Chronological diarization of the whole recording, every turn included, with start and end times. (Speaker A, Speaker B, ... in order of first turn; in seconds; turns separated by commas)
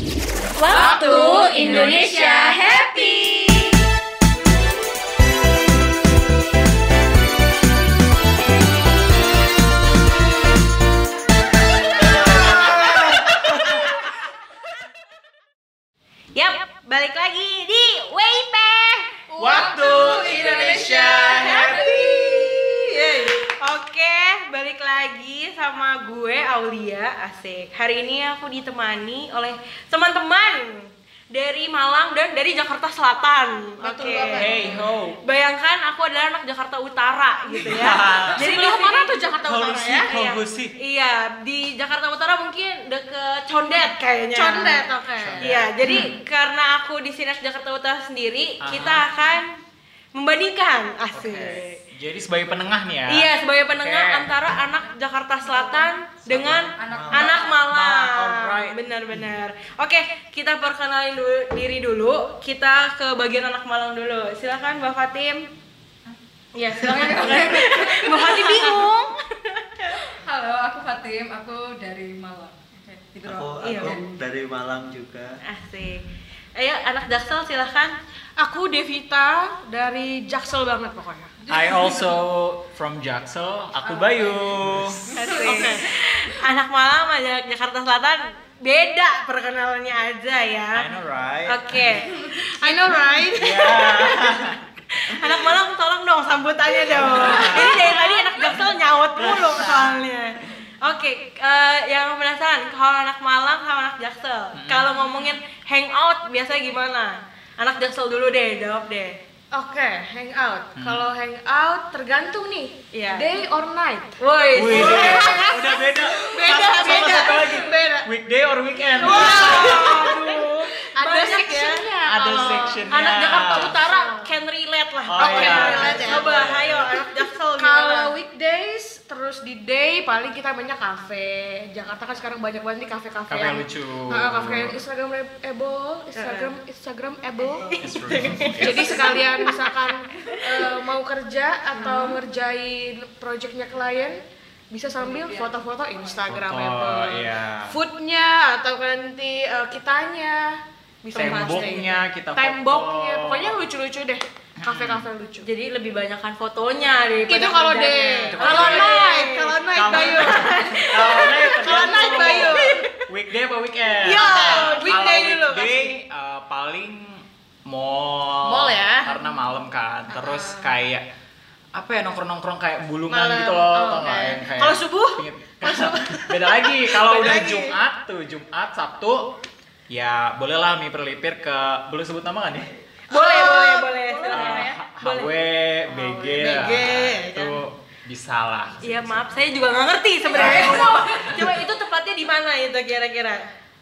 Speaker A: 0.5-2.7, Speaker B: 0.7-3.7, Speaker B: 12.0-13.4, Speaker C: 12.0-14.0, Speaker A: 16.3-19.1, Speaker B: 19.3-23.4, Speaker C: 19.4-22.0, Speaker D: 19.6-22.5, Speaker A: 21.9-34.5, Speaker B: 33.8-34.8, Speaker C: 34.2-35.2, Speaker A: 35.2-39.2, Speaker B: 37.5-40.1, Speaker C: 37.6-38.4, Speaker C: 39.5-40.7, Speaker A: 39.8-49.6, Speaker B: 44.3-45.6, Speaker C: 45.2-46.1, Speaker C: 48.6-49.0, Speaker A: 50.1-51.8, Speaker C: 51.1-54.3, Speaker A: 53.1-65.4, Speaker D: 55.5-55.9, Speaker E: 56.2-57.3, Speaker D: 56.8-57.6, Speaker C: 57.6-58.8, Speaker A: 66.5-70.0, Speaker D: 66.6-68.9, Speaker D: 70.0-74.0, Speaker E: 73.2-75.4, Speaker A: 73.6-74.0, Speaker A: 75.4-76.0, Speaker A: 76.5-77.9, Speaker B: 78.4-81.3, Speaker D: 81.4-82.2, Speaker C: 81.5-85.0, Speaker D: 83.8-85.9, Speaker A: 85.1-90.9, Speaker B: 85.2-86.0, Speaker C: 90.8-92.0, Speaker A: 91.5-94.4, Speaker D: 92.0-92.4, Speaker B: 92.4-93.9, Speaker C: 93.3-94.6, Speaker A: 94.9-109.2, Speaker B: 96.8-98.5, Speaker C: 96.9-98.6, Speaker C: 99.2-100.0, Speaker C: 104.5-104.9, Speaker B: 109.5-118.1, Speaker C: 110.8-111.1, Speaker A: 112.9-113.5, Speaker A: 114.2-115.5, Speaker C: 114.5-120.0, Speaker B: 118.8-124.3, Speaker A: 119.0-121.8, Speaker C: 122.0-123.8, Speaker A: 122.9-128.1, Speaker C: 125.1-126.9, Speaker B: 125.2-126.5, Speaker B: 127.6-137.7, Speaker C: 133.3-134.8, Speaker A: 136.1-136.5, Speaker A: 137.4-139.7, Speaker C: 137.8-139.0, Speaker B: 138.4-155.5, Speaker D: 138.6-139.4, Speaker D: 140.1-140.6, Speaker A: 141.7-142.2, Speaker D: 144.9-146.2, Speaker C: 146.3-147.8, Speaker A: 151.1-152.0, Speaker C: 151.1-153.6, Speaker C: 154.6-155.1, Speaker A: 155.4-162.8, Speaker B: 157.3-162.9, Speaker C: 158.3-159.2, Speaker C: 159.7-171.0, Speaker B: 163.9-165.9, Speaker A: 164.2-164.7, Speaker B: 168.4-169.4, Speaker B: 170.1-170.7, Speaker C: 171.7-179.2, Speaker B: 173.1-177.8, Speaker C: 179.9-182.7, Speaker B: 183.1-184.8, Speaker A: 183.1-185.3, Speaker C: 184.3-189.3, Speaker B: 185.9-187.6, Speaker A: 188.8-193.4, Speaker D: 190.3-191.6, Speaker C: 190.3-190.9, Speaker B: 190.4-190.7